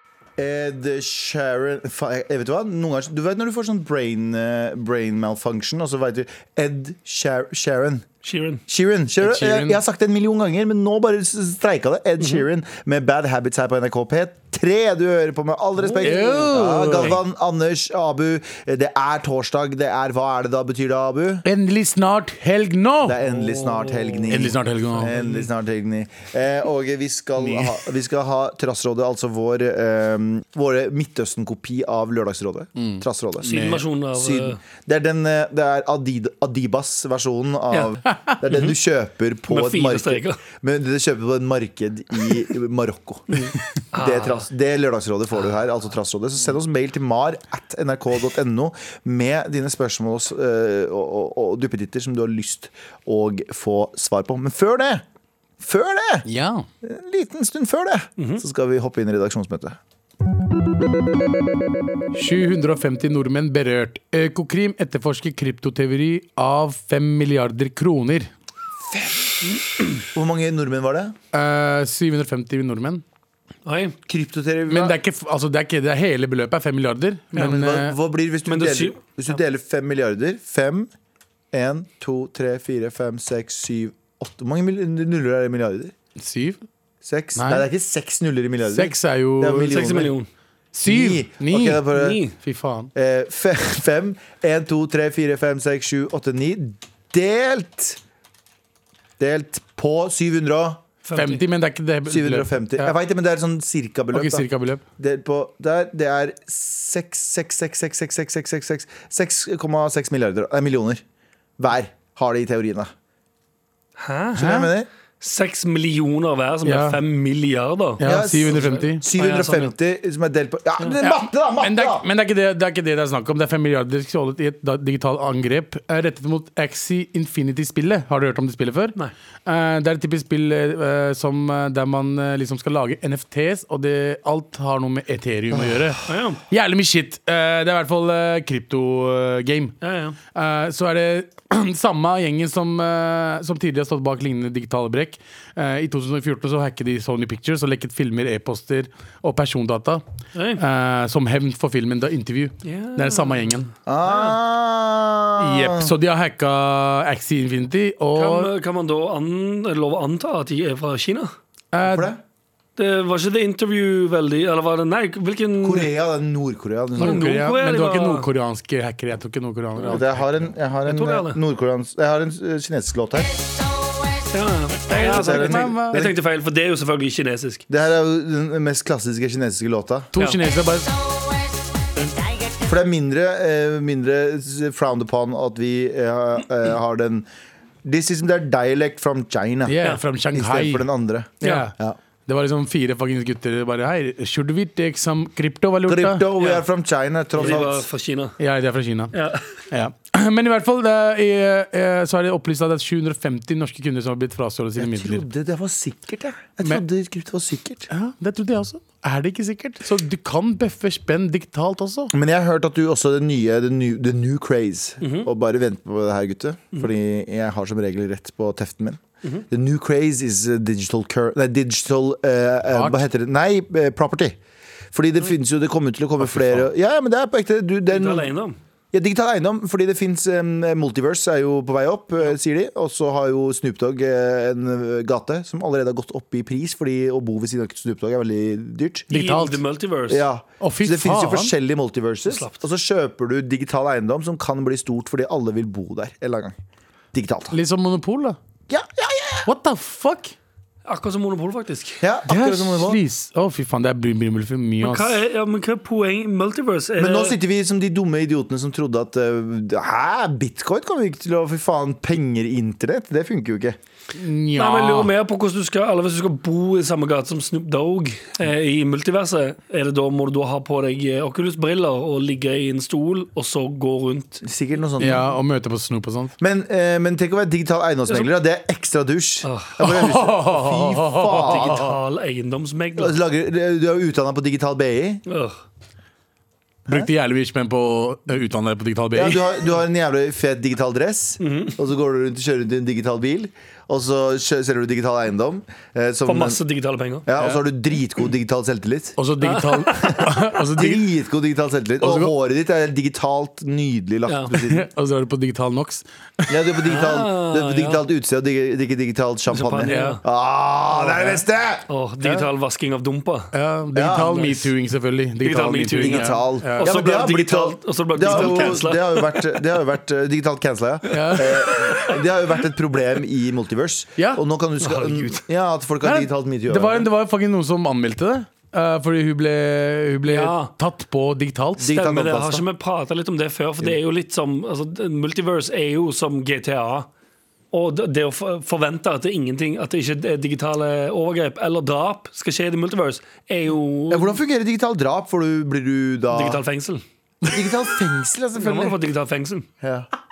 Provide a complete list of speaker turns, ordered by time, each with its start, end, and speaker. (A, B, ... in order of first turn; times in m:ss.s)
0:00.4-0:08.0 A
0:08.2-0:08.6 B
0:08.7-0:21.4 A
0:09.2-0:09.8 C
0:15.8-0:16.4 B
0:16.0-0:17.1 C
0:21.4-0:23.2 C
0:23.0-0:33.6 A
0:23.2-0:24.4 B
0:24.3-0:25.1 C
0:25.1-0:25.4 B
0:27.4-0:27.7 B
0:32.8-0:33.8 C
0:33.4-0:34.6 B
0:34.1-0:55.0 A
0:38.4-0:38.7 B
0:39.5-0:40.4 B
0:43.3-0:44.5 B
0:55.6-0:56.2 A
0:56.2-0:56.7 C
0:56.8-0:59.8 A
0:58.2-0:58.4 B
1:02.1-1:08.3 C
1:08.9-1:09.3 A
1:10.0-1:11.1 A
1:11.3-1:13.0 C
1:13.6-1:13.9 B
1:14.0-1:15.0 A
1:14.7-1:18.0 C
1:17.3-1:20.9 A
1:18.5-1:19.0 B
1:21.5-1:25.9 A
1:26.2-1:26.6 C
1:27.0-1:30.1 A
1:27.4-1:27.6 C
1:28.6-1:29.7 C
1:29.6-1:30.3 B
1:30.7-1:32.9 C
1:30.8-1:32.2 A
1:31.9-1:32.4 B
1:32.9-1:38.0 A
1:39.2-1:40.8 A
1:41.0-1:41.4 B
1:41.1-1:42.9 C
1:42.1-1:51.0 A
1:44.1-1:44.8 C
1:51.6-1:52.9 A
1:54.0-1:54.5 B
1:54.4-1:54.9 A
1:54.4-1:54.7 C
1:55.2-1:59.7 B
1:56.6-1:57.0 C
1:58.0-1:59.0 C
1:58.0-2:02.0 A
2:01.0-2:19.7 C
2:15.5-2:15.9 A
2:16.1-2:16.4 B
2:19.8-2:20.2 B
2:20.3-2:30.0 C
2:30.3-2:30.6 B
2:30.6-2:33.7 C
2:32.6-2:34.4 B
2:33.8-2:35.9 A
2:35.4-2:38.5 C
2:38.1-2:41.3 B
2:41.7-2:42.1 C
2:41.8-2:42.2 A
2:42.8-2:45.9 B
2:45.6-2:47.3 A
2:47.0-2:50.2 C
2:47.0-2:48.3 B
2:49.9-2:53.4 A
2:50.9-2:51.4 B
2:54.3-2:57.6 B
2:54.9-2:56.1 C
2:55.0-2:56.1 A
2:57.7-3:00.1 A
3:00.1-3:00.9 C
3:02.6-3:07.2 A
3:07.8-3:09.8 A
3:09.6-3:10.9 C
3:10.3-3:12.0 A
3:11.4-3:11.7 C
3:12.2-3:16.3 C
3:15.8-3:17.8 A
3:16.4-3:16.6 B
3:17.4-3:18.4 B
3:18.4-3:19.1 C
3:19.1-3:19.6 B
3:19.7-3:25.2 C
3:24.8-3:27.9 A
3:27.9-3:32.1 C
3:32.1-3:44.4 A
3:35.0-3:35.3 B
3:42.7-3:43.0 C
3:44.9-3:48.3 A
3:47.9-3:48.6 B
3:48.9-3:59.1 A
3:59.1-3:59.6 C
3:59.1-4:00.3 B
4:00.1-4:06.5 A
4:00.6-4:01.5 C
4:02.3-4:02.6 B
4:07.1-4:07.6 A
4:07.5-4:08.4 C
4:08.7-4:09.5 A
4:09.4-4:10.3 C
4:10.8-4:12.0 B
4:12.0-4:13.0 A
4:12.3-4:15.2 C
4:14.8-4:17.4 B
4:17.0-4:23.8 A
4:24.1-4:25.1 C
4:24.6-4:34.4 B
4:34.4-4:35.2 A
4:35.0-4:36.3 C
4:36.4-4:42.0 A
4:39.4-4:39.9 B
4:39.8-4:41.9 C
4:41.3-4:43.2 B
4:43.0-4:45.2 A
4:45.3-4:45.6 B
4:46.9-4:49.6 C
4:49.1-4:56.6 A
4:51.4-4:51.8 B
4:56.2-4:57.3 B
4:57.2-4:59.2 A
4:59.2-5:01.1 C
4:59.4-5:00.3 B
5:00.7-5:04.8 A
5:02.0-5:02.3 C
5:04.3-5:04.5 B
5:04.5-5:06.5 C
5:06.5-5:11.8 A
5:06.9-5:08.0 B
5:09.5-5:10.2 B
5:09.8-5:10.2 C
5:11.0-5:13.5 B
5:13.5-5:16.9 C
5:13.9-5:14.5 A
5:14.3-5:14.6 B
5:15.4-5:19.5 B
5:15.9-5:27.1 A
5:21.1-5:21.5 C
5:21.1-5:22.2 B
5:24.2-5:24.4 C
5:24.8-5:25.4 B
5:26.0-5:31.9 C
5:30.2-5:30.7 B
5:31.8-5:32.6 A
5:31.9-5:37.1 B
5:37.7-5:44.4 B
5:44.1-5:46.6 A
5:46.3-5:47.0 B
5:47.5-5:49.0 A
5:48.6-5:49.7 B
5:49.8-5:50.1 A